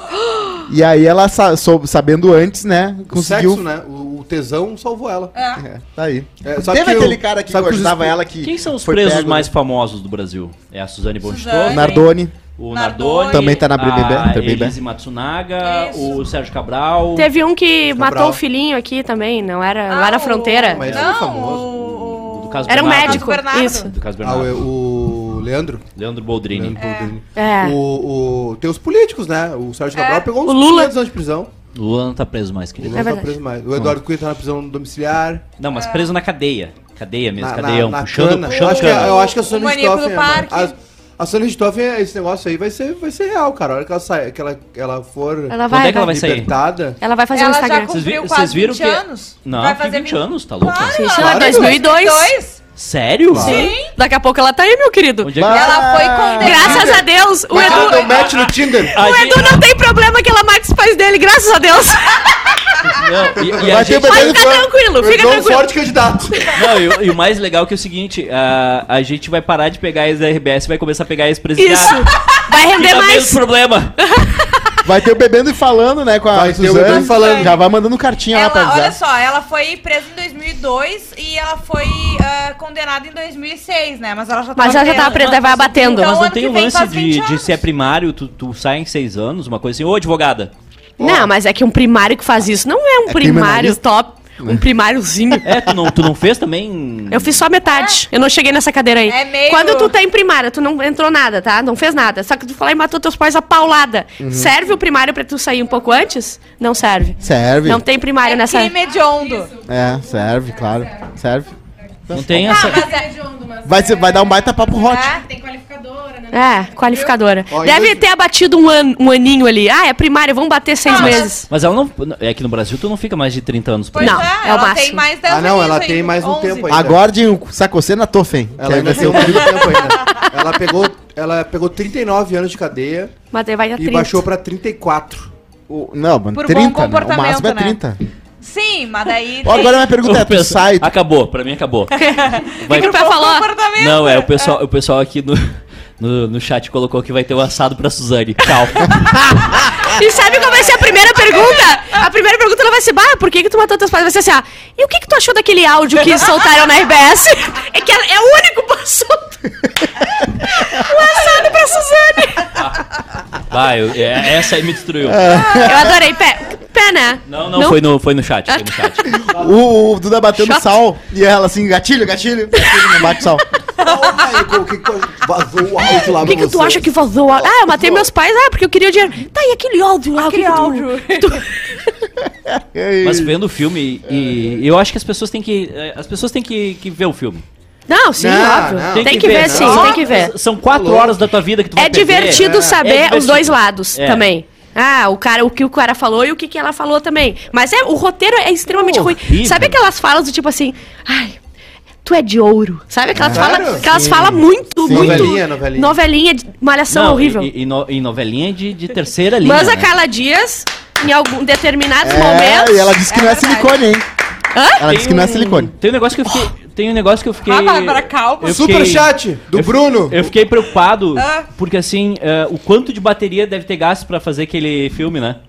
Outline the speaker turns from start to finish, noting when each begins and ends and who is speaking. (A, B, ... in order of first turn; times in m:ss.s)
0:00.3-0:00.6 A
0:00.7-0:03.6 B
0:03.1-0:05.3 C
0:05.3-0:05.6 D
0:05.6-0:09.5 B
0:06.4-0:08.1 C
0:08.4-0:17.3 E
0:11.2-0:12.1 D
0:11.7-0:12.3 B
0:12.7-0:13.6 D
0:13.3-0:14.8 B
0:15.6-0:16.2 D
0:17.2-0:20.9 A
0:17.9-0:18.4 C
0:19.9-0:23.9 D
0:20.7-0:21.7 C
0:20.9-0:21.1 E
0:21.7-0:24.6 E
0:22.6-0:23.9 A
0:24.2-0:25.8 C
0:26.0-0:26.8 E
0:26.5-0:31.5 C
0:26.8-0:27.1 D
0:27.3-0:27.8 A
0:29.9-0:30.3 D
0:30.4-0:30.9 A
0:31.7-0:33.1 E
0:32.8-0:35.4 C
0:32.9-0:33.4 A
0:35.6-0:39.1 E
0:35.8-0:36.1 D
0:37.4-0:47.0 C
0:38.5-0:40.7 D
0:45.5-0:46.3 A
0:45.7-0:46.5 E
0:47.0-0:48.0 A
0:47.3-0:52.6 D
0:47.9-0:51.0 E
0:50.9-0:52.3 A
0:51.2-0:51.8 C
0:52.8-0:53.7 E
0:53.3-0:53.7 C
0:53.3-0:53.9 D
0:53.4-0:55.6 A
0:55.2-0:55.8 E
0:55.4-0:56.5 B
0:55.4-0:57.0 D
0:56.3-0:58.2 A
0:56.4-0:59.0 C
0:57.5-0:59.7 E
0:58.9-1:03.0 A
1:03.0-1:04.4 E
1:03.6-1:06.5 C
1:03.6-1:04.5 B
1:04.0-1:05.7 A
1:06.5-1:14.0 E
1:11.6-1:13.4 A
1:14.0-1:14.7 A
1:14.8-1:19.0 B
1:16.3-1:17.6 C
1:16.8-1:17.6 D
1:18.3-1:27.6 D
1:24.6-1:26.2 A
1:24.9-1:30.5 E
1:31.0-1:31.3 C
1:31.0-1:35.4 A
1:33.1-1:33.8 B
1:35.4-1:37.4 E
1:37.1-1:48.8 A
1:37.7-1:38.0 D
1:39.1-1:39.9 D
1:44.2-1:44.5 B
1:47.2-1:47.8 B
1:48.2-1:49.5 D
1:49.7-1:51.5 B
1:52.1-1:52.7 B
1:52.1-1:52.9 E
1:52.4-1:53.4 D
1:53.6-1:55.2 B
1:54.8-1:55.3 D
1:56.3-2:01.5 A
1:57.5-1:58.0 C
2:00.8-2:01.3 D
2:00.9-2:04.2 E
2:03.9-2:06.7 D
2:04.0-2:05.0 A
2:05.2-2:07.0 C
2:06.7-2:09.6 B
2:08.6-2:13.1 C
2:09.7-2:10.1 D
2:13.3-2:14.2 A
2:13.8-2:15.3 C
2:15.7-2:18.0 B
2:16.3-2:17.8 D
2:18.4-2:19.8 D
2:19.4-2:20.9 B
2:20.0-2:21.9 E
2:22.0-2:23.5 A
2:22.2-2:24.5 D
2:22.5-2:23.0 E
2:23.8-2:29.0 E
2:29.7-2:39.4 A
2:31.2-2:31.6 D
2:40.2-2:42.7 A
2:42.6-2:42.8 E
2:43.5-2:45.2 E
2:45.0-2:46.0 B
2:45.3-2:45.8 D
2:45.5-2:47.8 A
2:47.3-2:49.2 E
2:48.5-2:49.3 A
2:49.3-2:53.4 B
2:50.4-2:50.6 A
2:52.6-2:53.0 A
2:53.8-2:58.1 C
2:53.8-2:54.2 D
2:56.0-3:01.9 A
3:00.2-3:01.4 D
3:02.4-3:03.4 B
3:03.0-3:07.4 E
3:07.9-3:10.3 A
3:08.2-3:10.1 C
3:08.9-3:14.3 E
3:10.6-3:11.2 C
3:11.8-3:21.4 A
3:12.3-3:12.8 C
3:19.2-3:19.8 E
3:22.0-3:27.5 A
3:23.1-3:25.4 B
3:23.2-3:23.9 C
3:24.9-3:26.0 C
3:26.9-3:29.9 E
3:29.4-3:33.0 A
3:32.0-3:34.0 B
3:33.1-3:33.8 D
3:34.5-3:34.9 A
3:34.8-3:35.7 B
3:34.8-3:45.4 E
3:37.4-3:38.7 D
3:38.5-3:40.2 C
3:41.1-3:41.5 D